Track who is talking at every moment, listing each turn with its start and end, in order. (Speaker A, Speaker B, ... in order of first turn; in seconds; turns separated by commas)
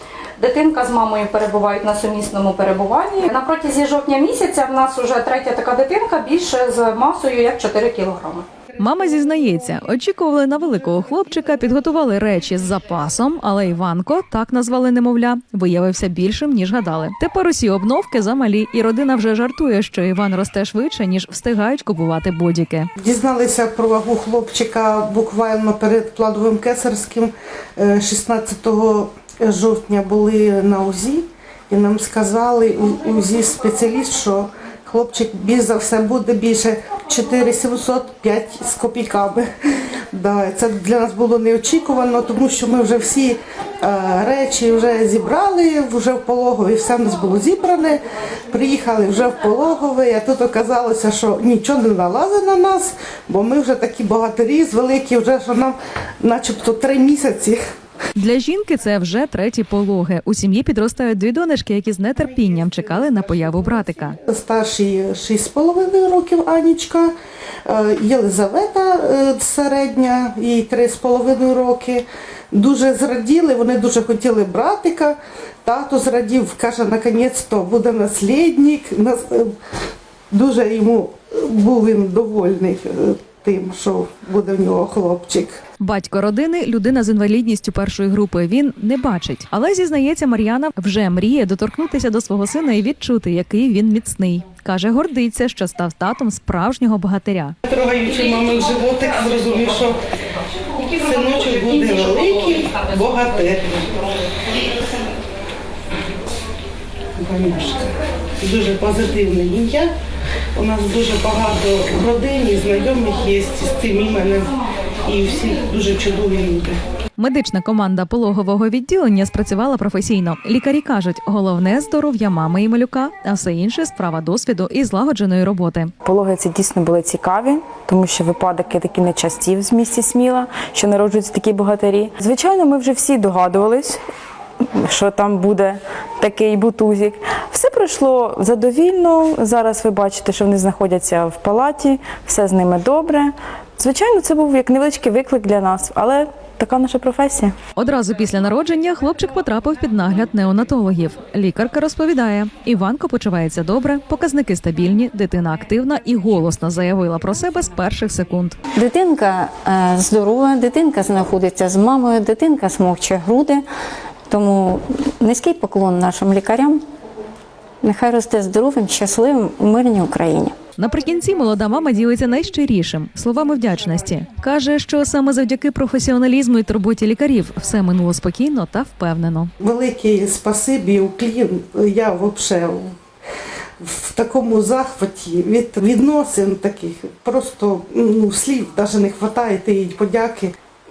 Speaker A: 0.4-8.4, Speaker B: 8.8-22.9, Speaker C: 23.0-39.5, Speaker C: 40.1-57.6, Speaker B: 58.2-64.2, Speaker C: 62.4-67.1, Speaker C: 67.7-79.5, Speaker C: 80.3-85.6, Speaker B: 85.8-97.5, Speaker C: 97.7-100.0, Speaker C: 100.8-103.9, Speaker C: 107.2-109.9, Speaker C: 110.5-114.5, Speaker C: 115.0-116.8, Speaker B: 117.2-125.9, Speaker D: 126.0-134.0, Speaker D: 134.8-147.6, Speaker B: 147.8-158.6, Speaker E: 158.7-163.7, Speaker E: 164.3-166.8, Speaker E: 167.8-170.6, Speaker B: 170.8-179.5, Speaker C: 179.6-182.9, Speaker C: 183.8-190.5